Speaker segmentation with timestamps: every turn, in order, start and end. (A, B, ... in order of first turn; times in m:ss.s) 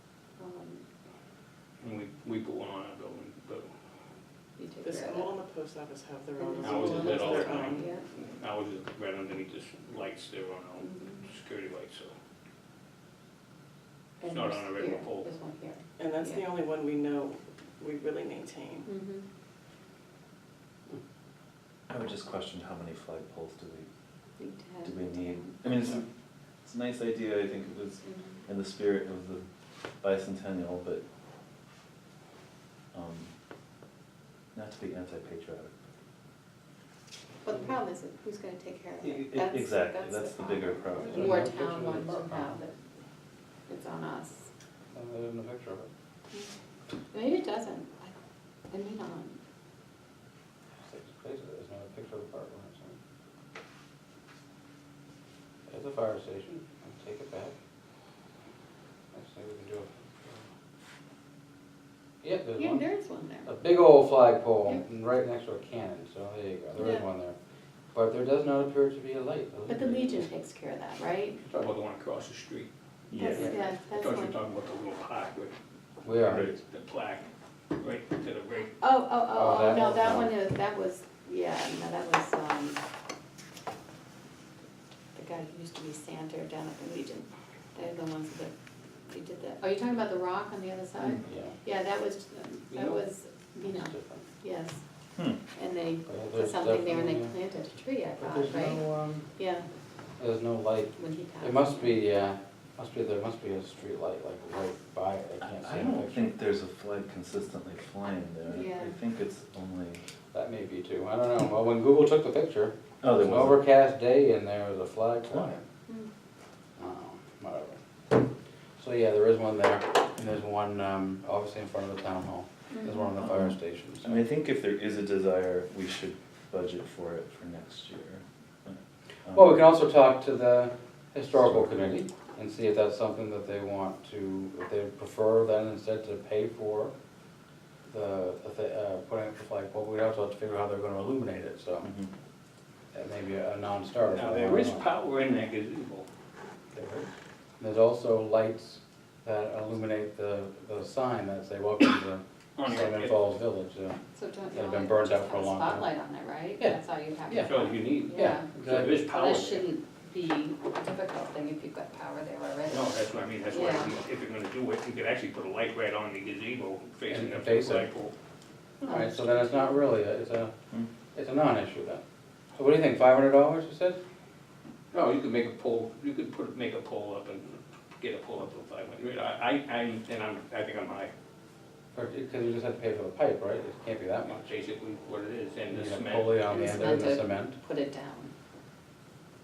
0:00.4-0:00.8 A
0:01.8-0:03.7 B
0:04.6-0:05.3 A
0:04.8-0:07.9 C
0:06.4-0:08.0 A
0:06.6-0:12.1 B
0:10.8-0:11.2 A
0:14.2-0:16.4 A
0:14.3-0:15.3 B
0:16.0-0:18.9 C
0:18.9-0:19.2 A
0:21.9-0:23.8 D
0:24.4-0:25.6 A
0:24.8-0:26.0 D
0:26.6-0:29.4 D
0:28.0-0:28.4 A
0:30.0-0:31.0 D
0:32.9-0:33.3 D
0:34.5-0:35.7 D
0:37.4-0:42.7 A
0:39.0-0:41.5 D
0:41.1-0:42.6 E
0:43.7-0:44.4 A
0:44.9-0:45.9 E
0:47.1-0:48.1 A
0:48.7-0:49.4 A
0:50.8-0:53.0 E
0:55.7-0:57.5 E
0:59.1-1:00.4 E
1:02.2-1:02.8 E
1:02.6-1:03.5 A
1:03.4-1:07.4 E
1:06.8-1:07.0 A
1:07.9-1:10.3 E
1:09.7-1:11.4 A
1:11.5-1:12.7 B
1:13.1-1:13.5 D
1:13.2-1:14.4 A
1:13.4-1:13.6 E
1:13.4-1:15.5 B
1:16.0-1:16.5 E
1:16.2-1:16.6 D
1:16.7-1:17.3 B
1:17.8-1:18.8 B
1:18.8-1:22.8 A
1:19.3-1:20.3 E
1:25.1-1:28.5 A
1:29.1-1:34.8 A
1:31.0-1:31.6 E
1:33.6-1:34.2 E
1:35.5-1:38.8 A
1:36.0-1:37.3 E
1:38.2-1:39.3 E
1:39.4-1:39.7 A
1:40.2-1:46.3 E
1:41.0-1:42.0 A
1:45.4-1:50.0 D
1:48.5-1:49.0 A
1:50.3-1:55.6 E
1:53.0-1:53.6 D
1:56.8-1:57.8 E
1:58.8-2:04.2 E
2:02.7-2:03.1 A
2:03.2-2:09.6 D
2:09.3-2:16.9 E
2:11.4-2:11.8 D
2:17.8-2:21.9 E
2:21.8-2:22.1 D
2:22.9-2:24.9 E
2:24.1-2:26.1 B
2:26.7-2:34.0 E
2:32.6-2:33.2 B
2:34.1-2:38.5 A
2:34.5-2:35.9 E
2:36.6-2:37.5 E
2:37.4-2:39.6 B
2:38.1-2:39.1 E
2:39.0-2:43.9 A
2:42.7-2:48.1 B
2:47.1-2:47.9 E
2:48.8-2:50.5 E
2:48.8-2:49.8 A
2:51.1-2:52.0 E
2:52.5-2:54.0 E
2:54.9-3:01.1 B
3:01.9-3:04.4 E
3:04.2-3:06.8 B
3:05.7-3:07.6 E
3:06.5-3:08.3 A